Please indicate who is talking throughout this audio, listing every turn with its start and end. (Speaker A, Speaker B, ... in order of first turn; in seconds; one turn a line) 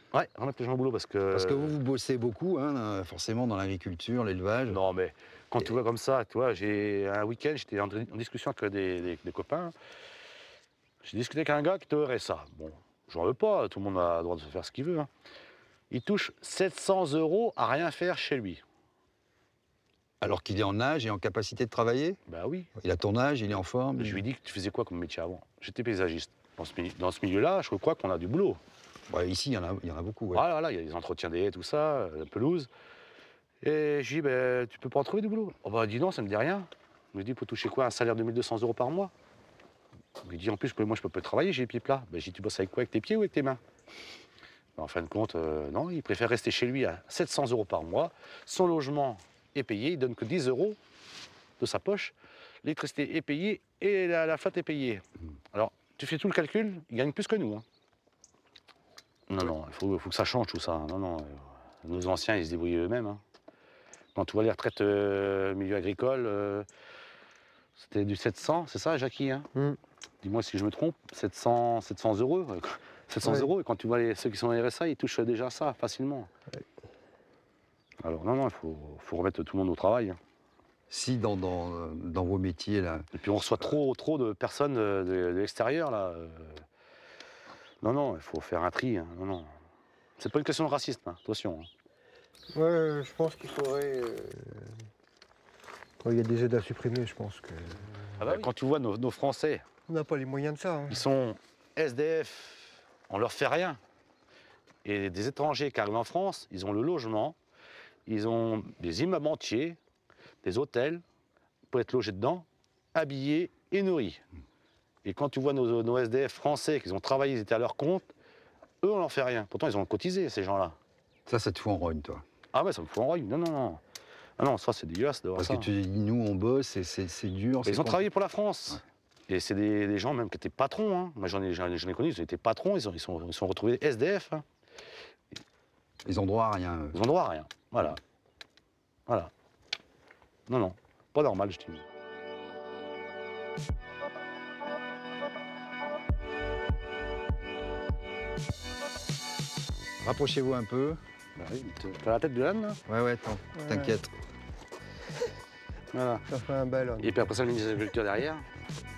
Speaker A: 0.1-1.8
Speaker B: 1.3-4.8
Speaker A: 4.7-9.7
Speaker A: 11.0-15.1
Speaker A: 15.9-18.6
Speaker B: 20.2-22.2
Speaker A: 22.3-22.7
Speaker B: 22.8-24.2
Speaker A: 24.0-28.6
Speaker B: 29.1-30.4
Speaker A: 30.3-32.7
Speaker A: 33.6-39.1
Speaker A: 40.2-43.6
Speaker A: 44.8-50.8
Speaker A: 51.6-57.6
Speaker A: 59.3-63.2
Speaker A: 64.2-66.7
Speaker A: 67.8-69.5
Speaker A: 70.2-76.3
Speaker C: 73.2-73.5
Speaker A: 78.0-80.2
Speaker B: 80.9-83.1
Speaker A: 83.2-86.6
Speaker A: 87.8-89.5
Speaker A: 90.2-91.7
Speaker C: 92.5-94.8
Speaker C: 96.0-98.3
Speaker A: 98.2-99.6
Speaker C: 99.9-101.0
Speaker A: 100.9-103.8
Speaker A: 104.8-107.4
Speaker A: 108.1-109.8
Speaker A: 110.4-111.0
Speaker A: 111.7-114.2
Speaker A: 115.0-118.1
Speaker A: 118.8-120.8
Speaker B: 121.3-122.2
Speaker A: 122.5-123.8
Speaker A: 124.4-125.7
Speaker B: 125.4-128.1
Speaker A: 127.7-134.4
Speaker B: 136.1-137.0
Speaker A: 136.9-138.0
Speaker A: 140.5-141.8
Speaker B: 150.0-151.0
Speaker A: 151.4-152.8
Speaker B: 152.9-154.1
Speaker C: 153.5-154.0
Speaker A: 155.9-156.2
Speaker C: 156.3-157.2
Speaker A: 157.0-158.5